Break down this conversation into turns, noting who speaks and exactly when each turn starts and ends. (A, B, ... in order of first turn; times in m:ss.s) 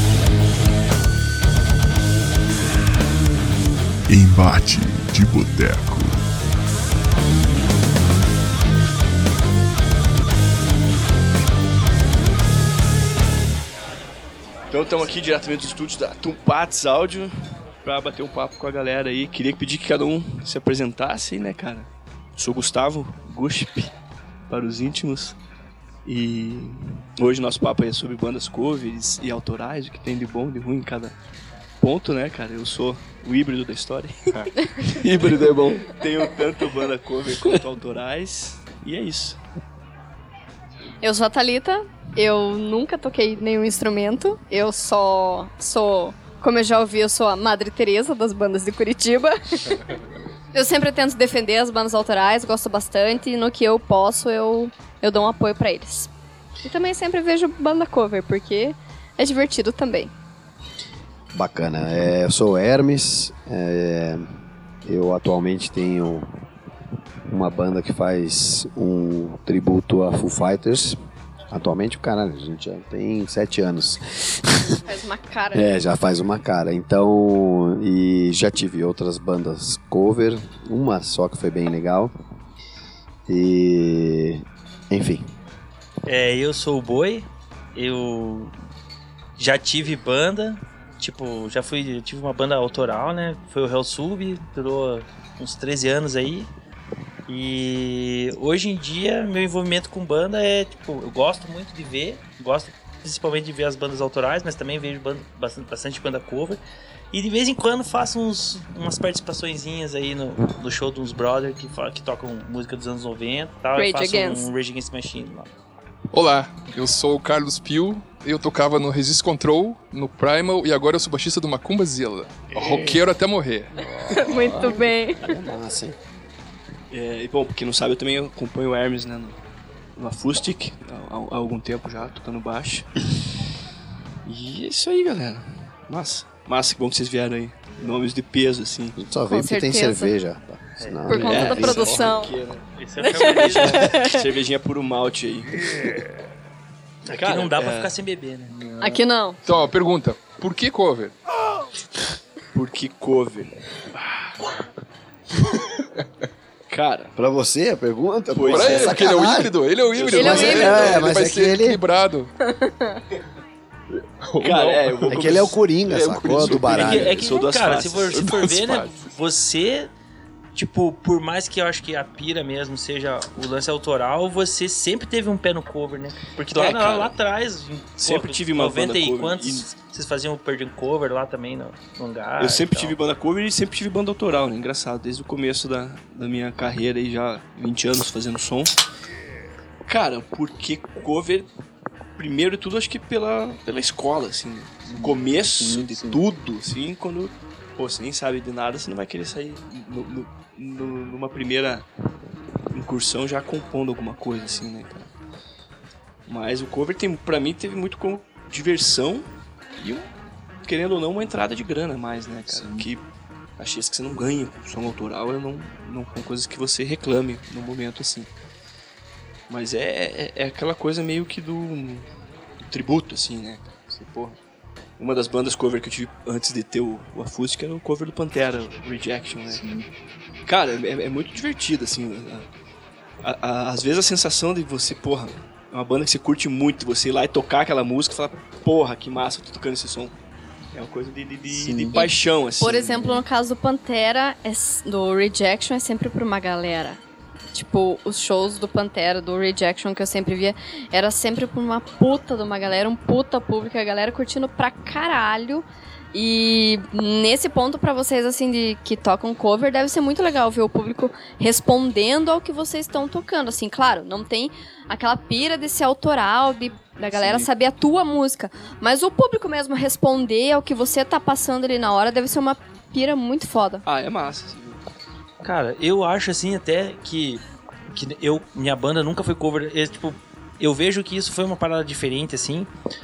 0:04.1-0:06.2 A
0:14.7-0:17.3 B
0:17.8-0:23.9 B
0:24.5-0:25.4 B
0:26.1-0:31.2 B
0:31.8-0:39.4 B
0:34.6-0:34.9 C
0:41.0-0:49.9 C
0:50.5-0:56.1 C
0:56.6-1:00.1 C
1:01.3-1:04.3 D
1:04.8-1:06.3 D
1:07.3-1:11.0 D
1:11.5-1:14.8 D
1:14.9-1:15.7 C
1:15.5-1:22.1 D
1:23.3-1:25.3 D
1:26.1-1:28.5 E
1:29.4-1:36.5 E
1:37.3-1:46.6 E
1:47.1-1:55.5 E
1:53.8-1:54.5 C
1:56.1-2:04.8 F
2:02.6-2:03.0 B
2:03.8-2:06.0 D
2:04.1-2:05.3 C
2:06.9-2:09.4 B
2:10.0-2:12.9 B
2:14.2-2:19.0 B
2:19.0-2:22.3 D
2:19.3-2:20.1 C
2:21.1-2:22.4 C
2:21.1-2:25.6 B
2:22.8-2:23.9 E
2:23.0-2:24.2 C
2:27.1-2:28.6 E
2:27.1-2:27.9 B
2:28.5-2:31.2 F
2:28.8-2:29.4 C
2:32.5-2:33.5 B
2:36.7-2:37.1 B
2:37.2-2:39.5 D
2:38.3-2:39.2 B
2:38.5-2:42.3 F
2:39.9-2:41.1 B
2:40.1-2:40.8 C
2:40.1-2:41.8 D
2:42.5-2:43.0 C
2:44.2-2:47.2 F
2:44.4-2:45.6 B
2:45.1-2:47.2 D
2:46.4-2:48.2 B
2:46.7-2:49.9 E
2:48.1-2:49.1 F
2:50.6-3:03.0 E
2:56.5-2:57.1 B
2:58.0-2:59.7 B
3:02.4-3:08.8 B
3:09.9-3:11.5 B
3:12.2-3:21.9 B
3:14.9-3:16.2 F
3:22.7-3:25.1 B
3:26.3-3:30.1 B
3:30.6-3:33.0 B
3:32.5-3:32.9 F
3:33.6-3:38.3 B
3:39.5-3:42.1 B
3:42.6-3:44.4 B
3:45.0-3:49.6 B
3:50.5-3:52.5 B
3:53.2-4:00.1 B
4:00.7-4:03.2 B
4:01.5-4:02.0 F
4:01.9-4:07.0 C
4:07.5-4:33.8 C
4:27.2-4:27.5 B
4:33.8-4:34.8 B
4:35.4-4:42.7 E